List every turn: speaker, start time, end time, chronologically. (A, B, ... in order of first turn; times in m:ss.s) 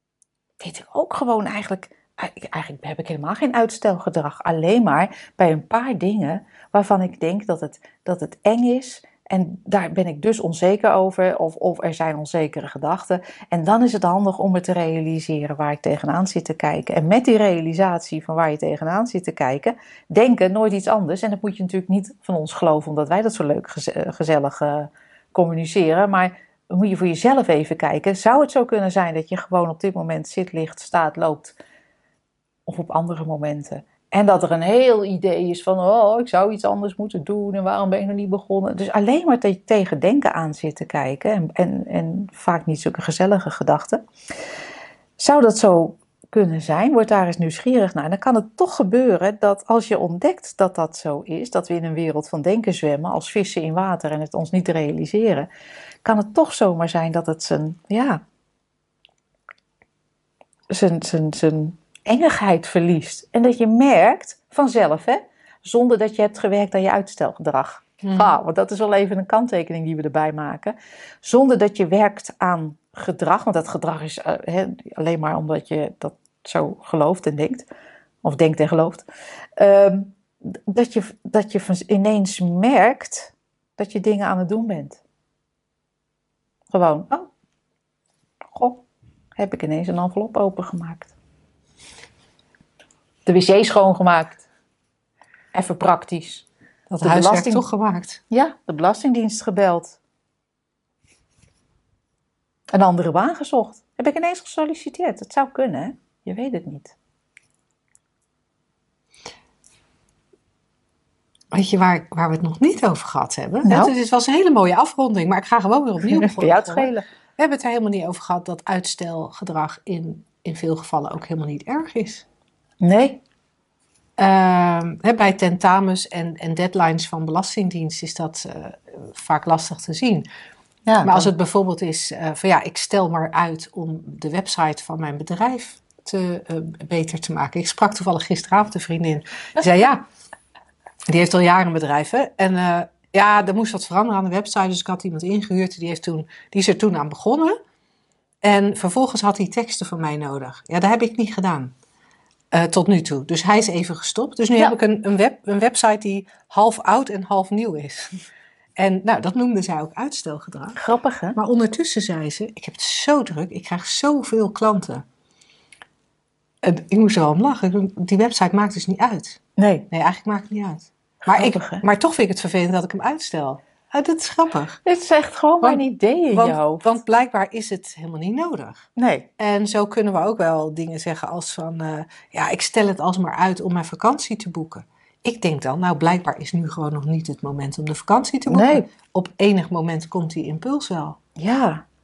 0:00.6-0:31.6 A
0:32.7-0:44.0 A
0:45.2-0:55.5 A
0:56.0-0:58.2 A
1:00.7-1:17.7 A
1:08.0-1:08.3 B
1:18.2-1:19.0 A
1:19.6-1:25.0 A
1:26.7-1:27.3 A
1:28.5-1:28.8 A
1:29.4-1:31.1 A
1:33.2-1:34.4 A
1:35.5-1:36.4 A
1:36.9-1:38.2 B
1:37.0-1:37.7 A
1:38.3-1:40.0 A
1:42.7-1:46.9 A
1:51.5-2:02.2 B
1:53.6-1:53.9 A
1:56.1-1:57.0 A
2:02.8-2:03.2 A
2:04.2-2:10.2 B
2:10.9-2:11.3 A
2:11.0-2:20.0 B
2:21.1-2:27.6 B
2:28.4-2:31.7 B
2:32.5-2:38.2 B
2:38.8-2:40.8 B
2:40.8-2:41.4 A
2:41.4-2:45.0 B
2:46.6-2:49.4 B
2:49.6-2:49.9 A
2:49.9-2:54.8 B
2:51.2-2:51.8 A
2:54.8-2:56.8 A
2:55.6-3:11.2 B
2:59.0-2:59.3 A
3:08.5-3:08.8 A
3:11.4-3:11.8 A